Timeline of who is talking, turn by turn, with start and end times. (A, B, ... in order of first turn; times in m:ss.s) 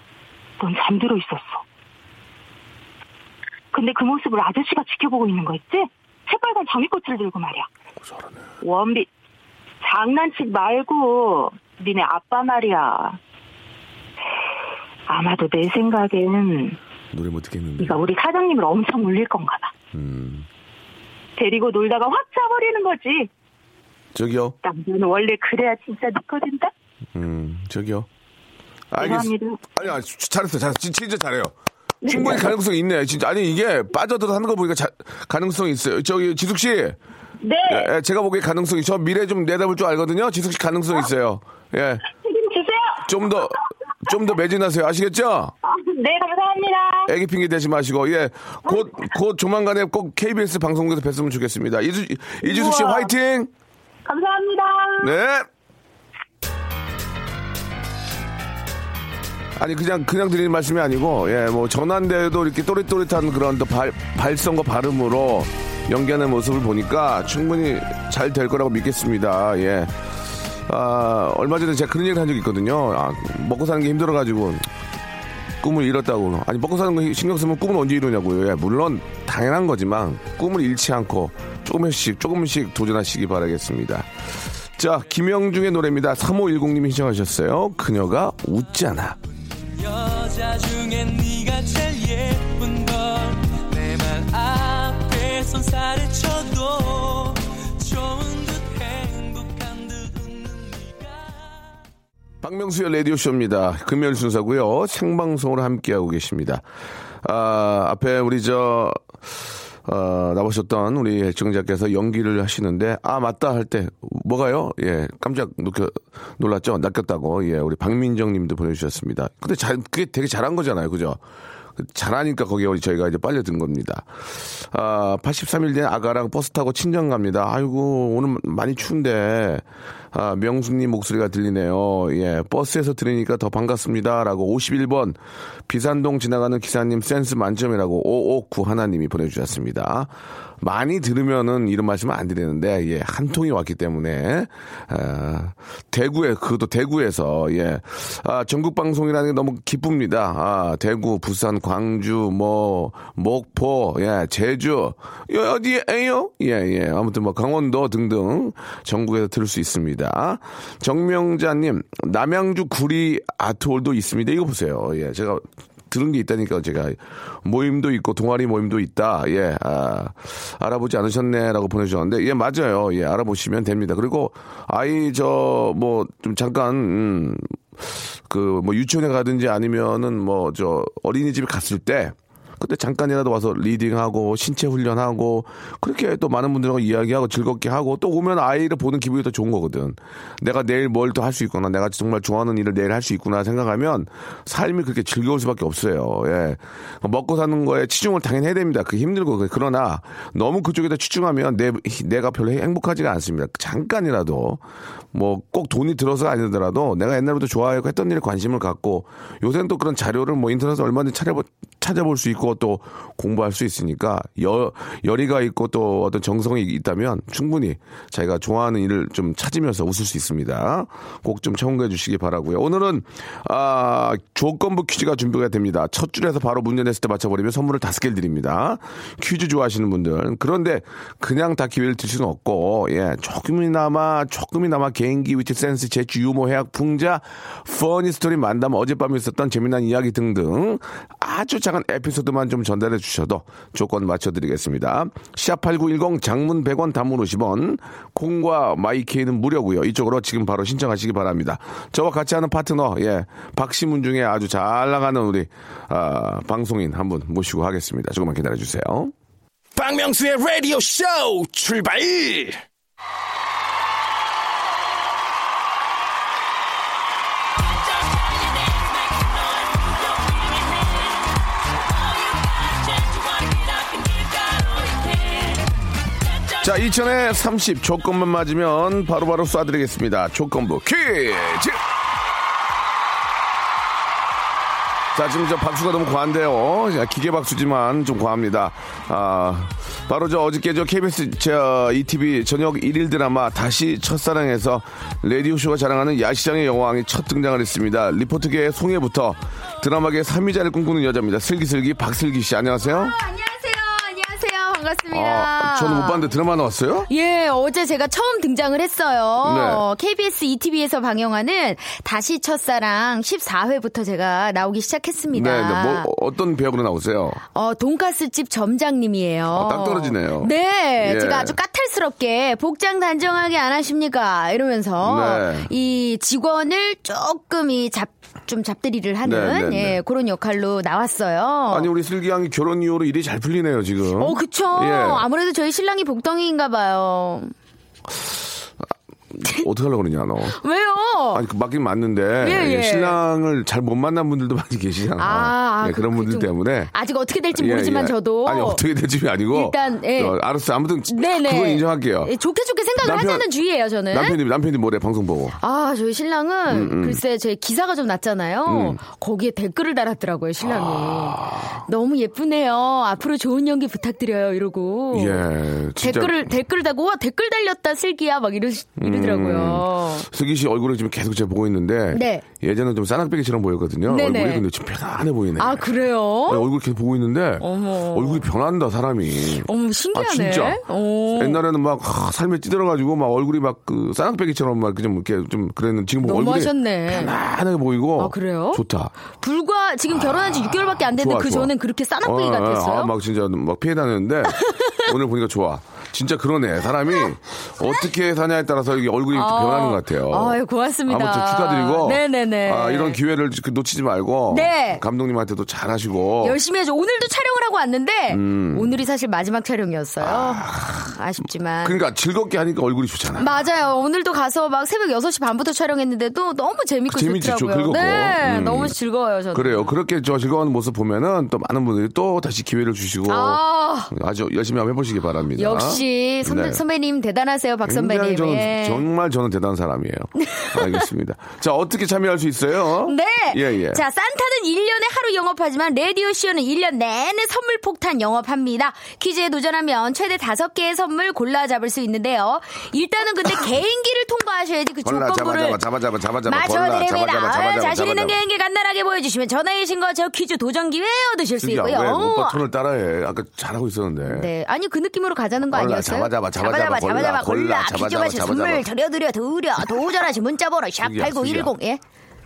0:00.6-0:01.6 A
0:03.7-0:07.7 A
0:08.6-0:09.1 A
0:09.8-0:13.2 A
0:15.1-0:16.8 A
0:17.1-0:18.0 B
0:17.8-0:19.7 A
0:19.9-0:20.5 B
0:21.4-0:23.3 A
0:24.2-0:24.6 B
0:24.6-0:26.7 A
0:27.2-0:28.1 B
0:28.9-0:37.0 B
0:29.0-0:29.6 A
0:32.0-0:32.5 A
0:37.4-0:37.9 A
0:37.7-0:42.0 B
0:42.2-0:43.5 A
0:43.0-0:45.5 B
0:45.6-0:47.1 A
0:47.1-0:53.5 B
0:48.7-0:49.0 A
0:52.4-0:53.1 A
0:54.0-0:55.1 A
0:55.0-0:55.5 B
0:59.6-1:09.9 B
1:10.7-1:14.6 B
1:15.6-1:24.1 B
1:24.8-1:29.2 B
1:29.7-1:41.7 C
1:42.4-1:46.6 B
1:47.2-1:49.0 B
1:49.9-2:01.2 B
2:01.8-2:04.1 B
2:04.7-3:24.6 B
3:25.1-4:19.1 B
4:19.8-4:22.6 D
4:28.3-4:30.7 C
4:32.6-4:35.0 C
4:36.6-4:41.8 B
4:45.1-5:03.2 B
5:02.8-5:06.2 E
5:05.1-5:07.1 B
5:07.1-5:16.1 E
5:09.4-5:09.8 B
5:15.3-5:17.4 B
5:17.5-5:31.9 E
5:19.5-5:21.6 B
5:25.0-5:25.7 B
5:29.2-5:30.0 B
5:31.7-5:35.2 B
5:34.2-5:37.5 E
5:39.3-5:40.6 B
5:40.6-5:41.4 E
5:41.3-5:46.9 B
5:42.4-5:43.2 E
5:45.2-5:48.8 E
5:47.5-5:52.3 B
5:49.5-5:50.4 E
5:51.1-5:54.4 E
5:53.0-5:53.5 B
5:54.1-5:55.6 B
5:55.6-6:05.5 E
5:56.7-5:57.2 B
5:58.7-5:59.0 B
6:00.6-6:01.8 B
6:05.1-6:06.5 B
6:06.0-6:10.3 E
6:09.0-6:15.9 B
6:12.1-6:12.4 E
6:14.1-6:14.6 E
6:15.6-6:16.7 E
6:16.5-6:20.8 B
6:17.6-6:18.5 E
6:19.6-6:21.6 E
6:21.4-6:29.1 B
6:26.2-6:27.3 E
6:28.2-6:28.8 E
6:29.3-6:33.1 E
6:30.1-6:46.6 B
6:34.6-6:35.0 E
6:39.3-6:43.2 E
6:44.5-6:45.0 E
6:46.4-6:52.0 E
6:48.3-6:49.0 B
6:50.2-6:51.1 B
6:51.8-6:53.5 B
6:53.4-6:59.9 E
6:57.1-6:59.0 B
6:59.5-7:06.8 B
7:03.3-7:04.1 E
7:05.6-7:09.0 E
7:07.8-7:14.0 B
7:10.4-7:11.0 E
7:13.0-7:25.8 E
7:25.0-7:28.4 B
7:26.5-7:32.6 E
7:31.6-7:34.5 B
7:34.3-7:42.0 E
7:35.7-7:38.8 B
7:41.0-7:41.7 B